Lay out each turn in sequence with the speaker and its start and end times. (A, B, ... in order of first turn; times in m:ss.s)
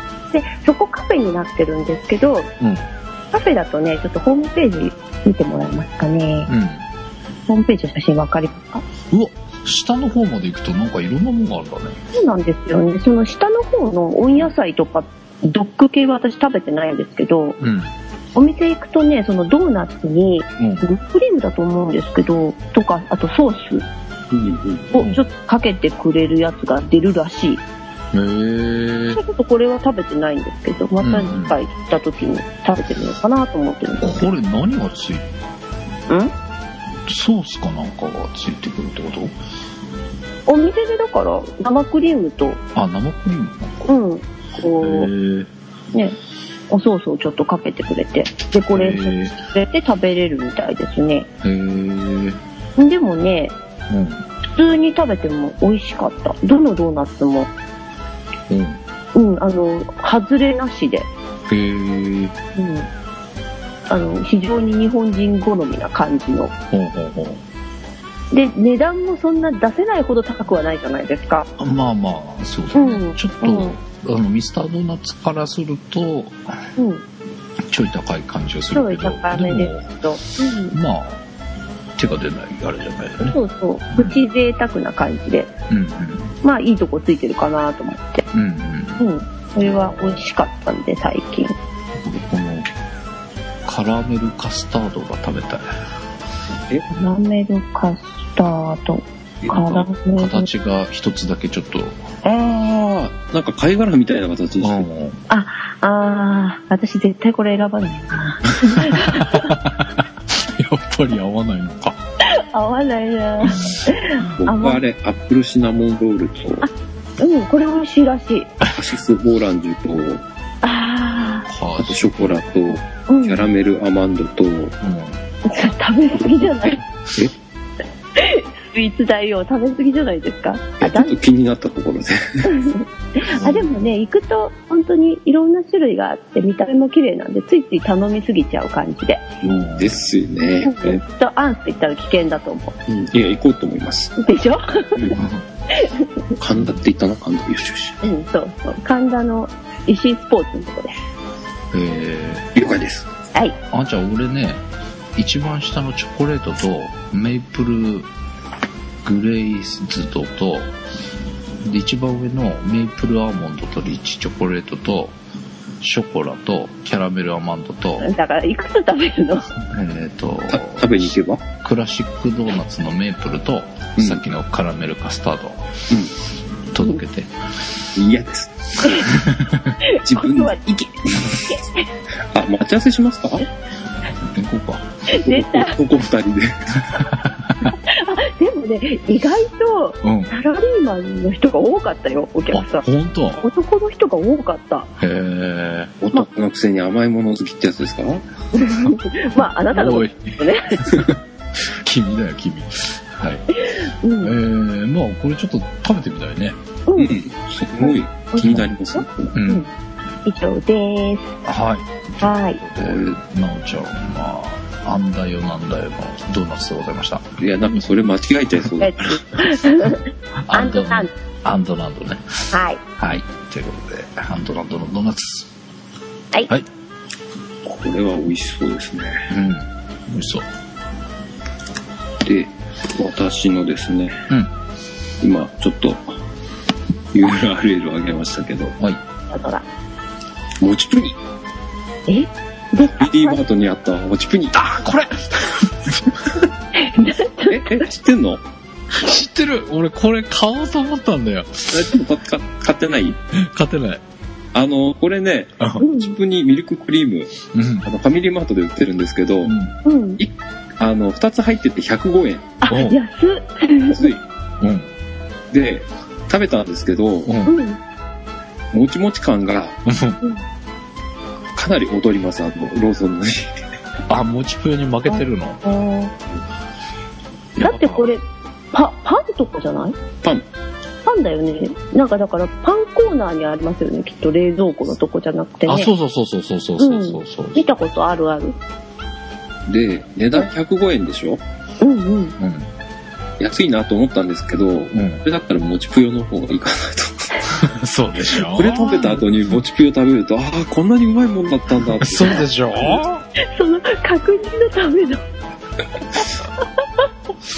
0:00.3-0:02.5 A
0:02.6-0:02.9 B
0:03.3-0:06.5 A
0:06.5-0:06.8 B
0:07.5-0:08.8 A
0:09.1-0:12.0 B
0:12.1-0:17.6 A
0:17.6-0:17.9 B
0:18.3-0:23.8 A
0:20.6-0:20.9 B
0:24.3-0:24.9 C
0:24.9-0:27.6 A
0:28.1-0:29.2 B
0:29.1-0:34.2 A
0:31.0-0:31.6 B
0:34.0-0:35.3 B
0:37.1-0:39.3 B
0:40.5-0:42.6 A
0:42.7-0:43.9 B
0:43.9-0:45.1 A
0:44.8-0:45.5 B
0:46.7-0:51.3 A
0:48.7-0:49.4 B
0:51.4-0:52.4 B
0:52.8-0:53.5 A
0:53.9-0:54.2 B
0:54.5-0:57.5 A
0:58.5-0:58.8 B
0:59.1-1:01.1 A
1:01.5-1:02.3 B
1:02.6-1:02.9 A
1:03.9-1:06.5 A
1:06.7-1:07.4 B
1:08.3-1:11.5 A
1:11.6-1:16.6 B
1:12.7-1:13.7 A
1:16.8-1:17.0 A
1:17.7-1:19.9 B
1:18.7-1:20.8 A
1:20.7-1:21.2 B
1:22.0-1:23.4 B
1:23.3-1:25.5 A
1:23.9-1:24.2 B
1:25.7-1:26.3 B
1:26.4-1:28.2 A
1:28.3-1:29.0 B
1:29.0-1:31.5 A
1:29.6-1:30.2 B
1:32.0-1:32.7 B
1:33.6-1:35.6 B
1:36.9-1:40.5 A
1:39.4-1:39.8 C
1:40.1-1:42.0 B
1:42.4-1:44.8 C
1:44.6-1:45.2 B
1:45.3-1:49.6 A
1:48.8-1:52.0 B
1:52.3-1:54.8 A
1:53.4-1:53.8 B
1:54.4-1:56.6 C
1:56.6-1:58.5 A
1:58.7-2:00.2 C
2:00.6-2:01.5 A
2:01.5-2:02.4 B
2:01.8-2:04.8 C
2:03.1-2:03.4 A
2:04.8-2:05.2 B
2:05.4-2:06.8 A
2:08.2-2:11.2 A
2:10.8-2:12.5 C
2:12.4-2:19.3 A
2:13.3-2:13.7 B
2:19.4-2:20.1 B
2:19.8-2:21.0 C
2:20.6-2:22.7 A
2:22.9-2:24.2 C
2:24.2-2:25.1 A
2:25.7-2:26.1 A
2:26.4-2:28.0 C
2:28.0-2:30.9 A
2:31.7-2:32.5 B
2:32.5-2:33.1 C
2:33.7-2:34.6 B
2:35.2-2:38.1 B
2:39.0-2:40.7 B
2:41.6-2:45.1 B
2:45.8-2:48.1 B
2:48.0-2:49.5 A
2:49.7-2:55.7 B
2:50.5-2:51.4 C
2:54.0-2:54.2 C
2:56.7-2:57.3 B
2:57.9-2:59.1 C
2:58.8-2:59.1 A
2:59.1-2:59.8 B
2:59.8-3:00.9 A
3:00.0-3:01.5 C
3:01.4-3:01.9 A
3:02.3-3:03.5 C
3:04.2-3:04.9 B
3:05.1-3:05.8 A
3:05.3-3:07.0 C
3:07.0-3:07.7 B
3:07.8-3:12.8 A
3:10.0-3:10.3 B
3:12.5-3:13.4 B
3:13.4-3:14.9 A
3:15.0-3:15.9 B
3:16.0-3:18.2 C
3:18.5-3:21.0 A
3:19.7-3:21.0 B
3:21.6-3:23.5 B
3:23.5-3:24.4 A
3:24.2-3:26.6 B
3:27.0-3:29.3 C
3:27.8-3:29.7 A
3:28.4-3:28.7 B
3:29.3-3:29.6 B
3:30.2-3:31.4 A
3:31.4-3:37.3 B
3:32.2-3:32.6 A
3:32.8-3:33.2 C
3:37.4-3:39.6 C
3:38.8-3:41.1 A
3:40.4-3:45.5 B
3:42.5-3:42.8 A
3:47.6-3:49.2 C
3:49.3-3:50.4 B
3:52.2-3:54.2 C
3:55.2-3:56.0 C
3:57.1-3:58.7 C
3:59.3-3:59.6 A
4:00.6-4:01.2 C
4:02.1-4:03.4 A
4:03.0-4:04.6 C
4:04.5-4:06.2 B
4:06.7-4:07.8 A
4:07.5-4:08.4 C
4:08.9-4:11.9 B
4:11.7-4:13.2 C
4:13.3-4:14.0 B
4:14.5-4:19.5 C
4:15.6-4:15.8 B
4:15.8-4:16.1 A
4:17.5-4:17.9 B
4:19.4-4:19.8 B
4:19.8-4:20.2 A
4:20.2-4:22.5 C
4:22.6-4:24.1 A
4:22.7-4:23.0 B
4:23.9-4:24.2 C
4:24.6-4:24.9 B
4:25.5-4:27.3 C
4:27.2-4:27.5 B
4:27.4-4:27.8 A
4:28.7-4:29.8 C
4:29.8-4:30.2 B
4:31.6-4:33.5 C
4:34.1-4:35.6 B
4:35.1-4:36.1 A
4:37.6-4:38.1 B
4:37.6-4:40.0 A
4:41.0-4:45.9 A
4:45.7-4:47.7 B
4:46.8-4:48.6 A
4:49.7-4:51.4 C
4:51.8-4:52.3 A
4:52.4-4:52.7 B
4:53.4-4:57.6 C
4:54.9-4:55.2 B
4:57.5-4:59.3 B
4:58.3-5:03.0 C
5:02.0-5:03.2 B
5:03.4-5:05.2 A